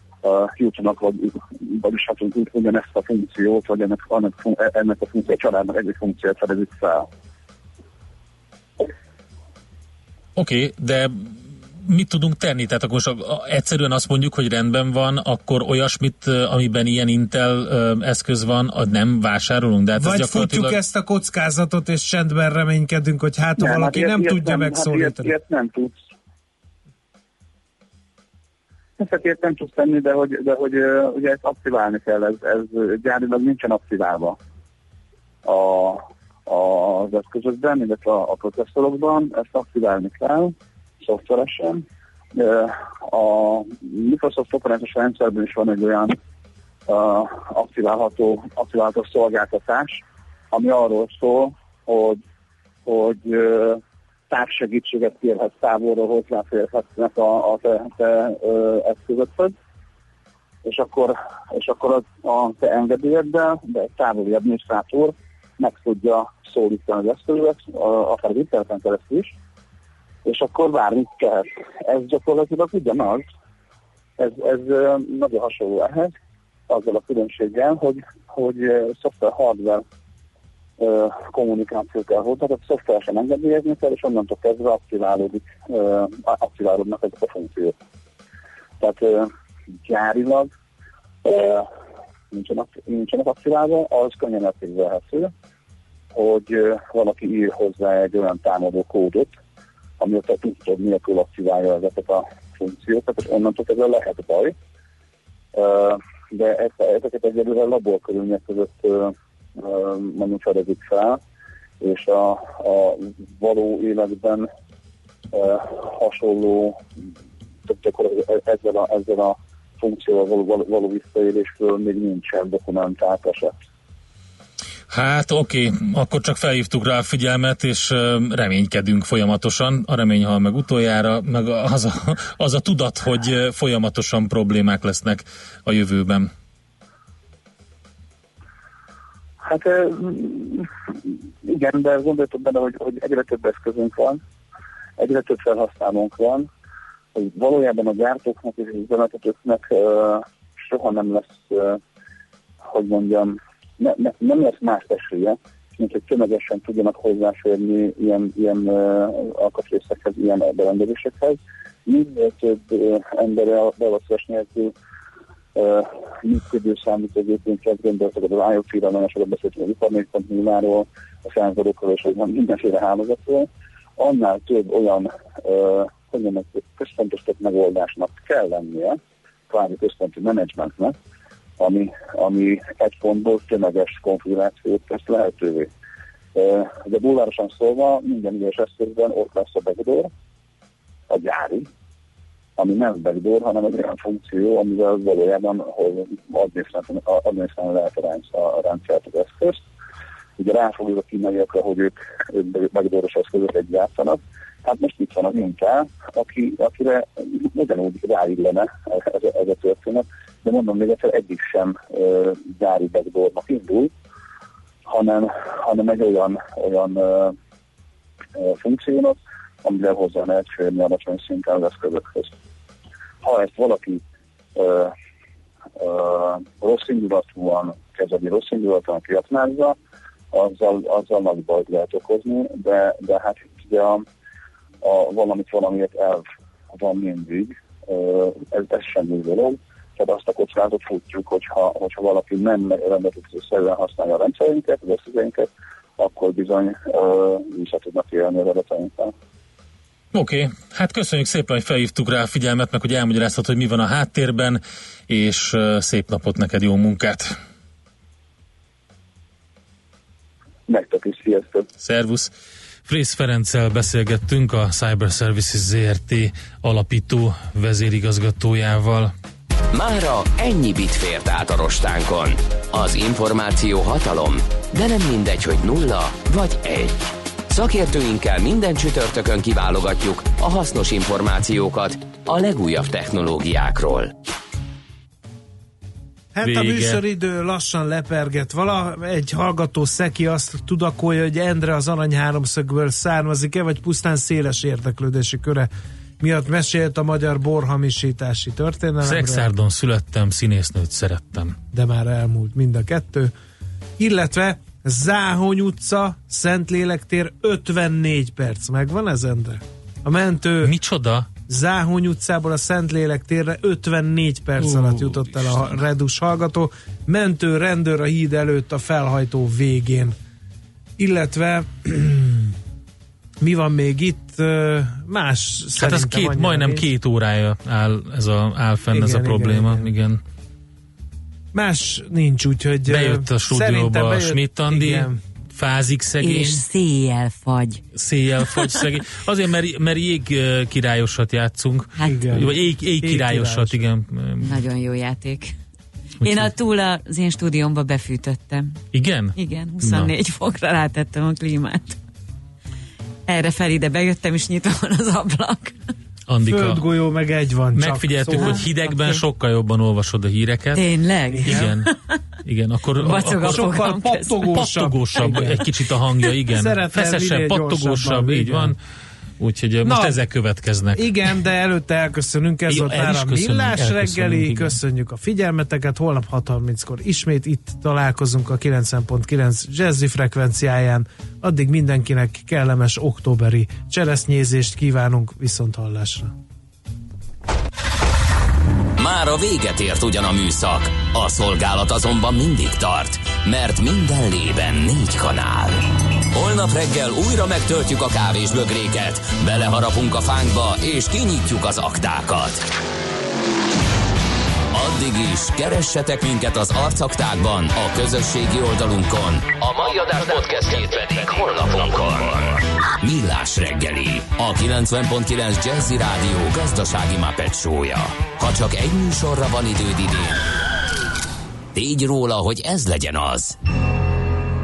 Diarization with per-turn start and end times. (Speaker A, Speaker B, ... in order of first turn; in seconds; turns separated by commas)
Speaker A: 0.2-7.1, Speaker B: 10.4-11.3, Speaker B: 11.8-20.8, Speaker C: 20.0-25.3, Speaker A: 23.6-26.0, Speaker A: 29.0-34.4, Speaker A: 35.5-46.2, Speaker A: 46.9-50.0, Speaker A: 50.5-52.2, Speaker A: 52.9-59.5, Speaker A: 60.6-69.3, Speaker A: 70.2-73.3, Speaker A: 74.2-76.1, Speaker A: 76.7-79.8, Speaker A: 80.8-87.8, Speaker A: 88.8-89.3, Speaker A: 89.8-90.5, Speaker A: 91.2-91.7, Speaker A: 92.3-95.3, Speaker A: 96.1-99.3, Speaker A: 100.0-104.5, Speaker A: 105.5-111.2, Speaker A: 111.8-114.5, Speaker A: 115.3-116.8, Speaker A: 117.7-123.6, Speaker B: 124.9-136.3, Speaker A: 139.4-144.2, Speaker A: 145.0-146.5, Speaker A: 147.1-151.8, Speaker A: 152.6-164.7, Speaker A: 165.6-179.0, Speaker A: 179.5-180.9, Speaker A: 181.6-185.7, Speaker A: 186.3-190.1, Speaker A: 191.1-191.7, Speaker A: 192.6-199.6, Speaker A: 200.4-213.9, Speaker A: 214.9-217.4, Speaker A: 218.3-222.3, Speaker A: 223.2-224.0, Speaker A: 224.6-224.9, Speaker A: 225.8-229.8, Speaker A: 230.3-234.1, Speaker A: 234.8-249.1, Speaker B: 250.1-257.4, Speaker A: 260.7-261.7, Speaker B: 261.8-262.3, Speaker B: 262.9-269.1, Speaker D: 269.7-284.1, Speaker C: 286.4-295.7, Speaker B: 286.4-287.0, Speaker C: 296.2-299.5, Speaker B: 299.0-301.6, Speaker C: 301.7-303.3, Speaker C: 304.0-310.7, Speaker B: 310.6-311.3, Speaker C: 311.5-320.1, Speaker B: 314.6-315.8, Speaker C: 321.0-322.6, Speaker C: 323.4-326.9, Speaker B: 325.8-330.2, Speaker C: 328.9-329.9, Speaker C: 331.5-335.2, Speaker B: 332.9-336.6, Speaker E: 336.2-337.8, Speaker B: 337.9-344.6, Speaker E: 338.5-338.9, Speaker E: 342.0-342.4, Speaker C: 342.0-343.9, Speaker E: 344.4-345.6, Speaker B: 346.2-346.5, Speaker E: 346.2-348.8, Speaker B: 348.9-350.1, Speaker E: 349.4-352.0, Speaker E: 353.3-355.8, Speaker B: 356.3-356.9, Speaker C: 356.5-358.8, Speaker B: 357.8-360.9, Speaker E: 358.4-359.2, Speaker E: 360.8-361.9, Speaker C: 361.3-361.8, Speaker B: 361.4-361.9, Speaker B: 362.4-363.7, Speaker C: 363.0-365.6, Speaker E: 363.1-364.5, Speaker B: 364.5-368.8, Speaker C: 366.5-368.8, Speaker B: 369.4-371.4, Speaker C: 369.8-370.2, Speaker C: 370.9-386.3, Speaker B: 372.7-374.8, Speaker D: 389.0-402.6, Speaker D: 404.7-420.4, Speaker D: 421.7-423.6